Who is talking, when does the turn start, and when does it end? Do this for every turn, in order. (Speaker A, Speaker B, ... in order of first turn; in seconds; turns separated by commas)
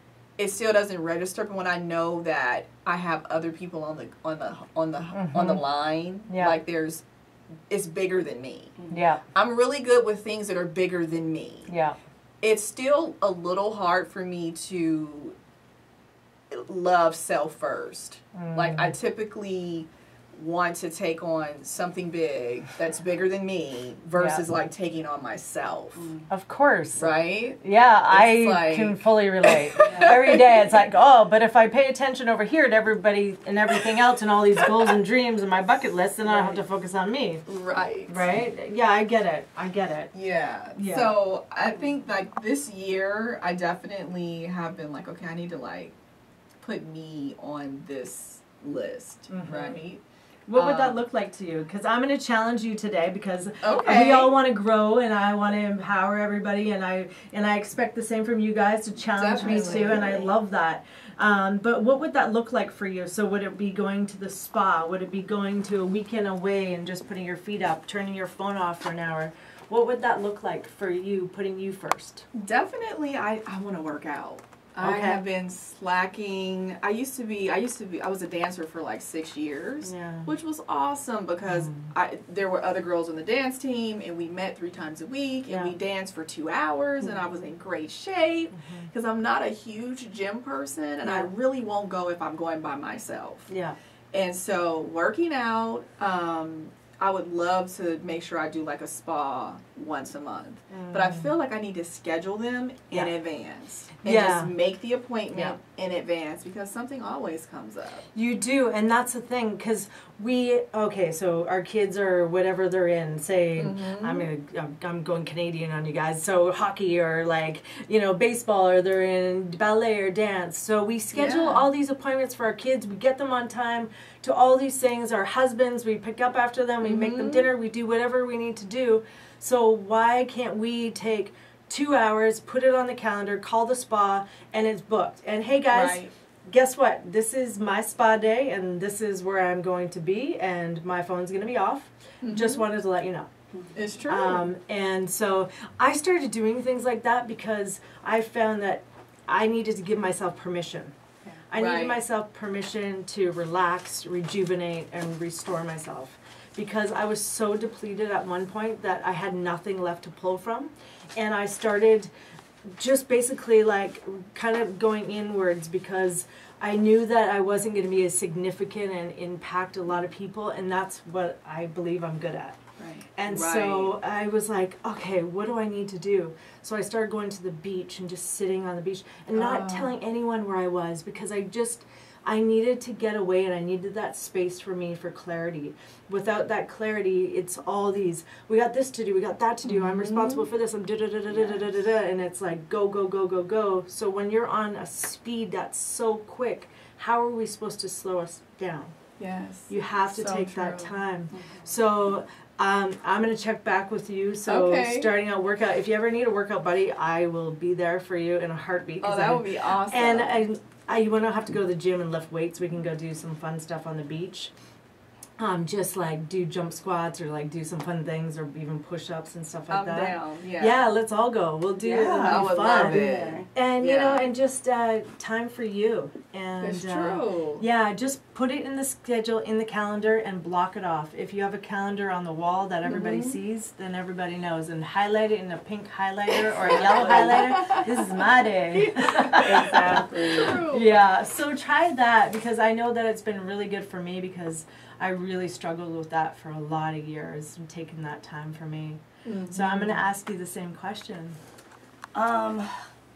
Speaker A: 0.4-7.0, Speaker B: 5.1-5.7, Speaker B: 6.3-6.6, Speaker A: 7.7-8.8, Speaker B: 8.9-9.2, Speaker A: 9.3-11.7, Speaker B: 11.7-12.0, Speaker A: 12.4-15.4, Speaker A: 16.5-26.1, Speaker B: 18.3-18.9, Speaker B: 24.2-24.4, Speaker C: 26.0-26.3, Speaker B: 26.3-37.4, Speaker A: 27.0-30.6, Speaker A: 36.3-36.6, Speaker A: 37.5-38.2, Speaker B: 38.1-40.1, Speaker A: 40.1-46.0, Speaker B: 40.8-41.2, Speaker A: 46.6-50.0, Speaker B: 49.3-49.8, Speaker B: 50.5-72.3, Speaker A: 50.5-51.0, Speaker A: 53.6-54.4, Speaker A: 59.1-60.3, Speaker C: 59.4-60.1, Speaker A: 72.3-93.5, Speaker B: 74.8-75.2, Speaker B: 79.8-80.3, Speaker B: 81.5-81.9, Speaker B: 85.5-85.7, Speaker B: 88.5-88.9, Speaker B: 93.5-93.8, Speaker A: 94.1-108.1, Speaker B: 100.7-101.3, Speaker B: 104.0-104.5, Speaker B: 108.1-143.3, Speaker A: 113.6-114.3, Speaker A: 121.1-121.7, Speaker A: 126.8-127.5, Speaker A: 135.7-136.1, Speaker A: 142.2-142.7, Speaker A: 143.7-144.5, Speaker B: 144.1-150.9, Speaker A: 151.2-152.0, Speaker B: 151.5-162.1, Speaker B: 162.7-172.6, Speaker A: 172.8-174.0, Speaker B: 173.2-198.9, Speaker A: 179.3-179.9, Speaker A: 189.7-190.5, Speaker A: 199.2-201.7, Speaker B: 199.7-214.5, Speaker A: 204.5-205.1, Speaker A: 209.0-210.4, Speaker B: 215.4-251.4, Speaker A: 219.7-220.8, Speaker C: 221.8-223.5, Speaker A: 222.1-224.2, Speaker A: 226.6-227.7, Speaker A: 232.8-233.4, Speaker A: 236.6-238.2, Speaker C: 236.9-237.4, Speaker A: 238.7-240.9, Speaker A: 249.2-250.0, Speaker C: 252.1-252.8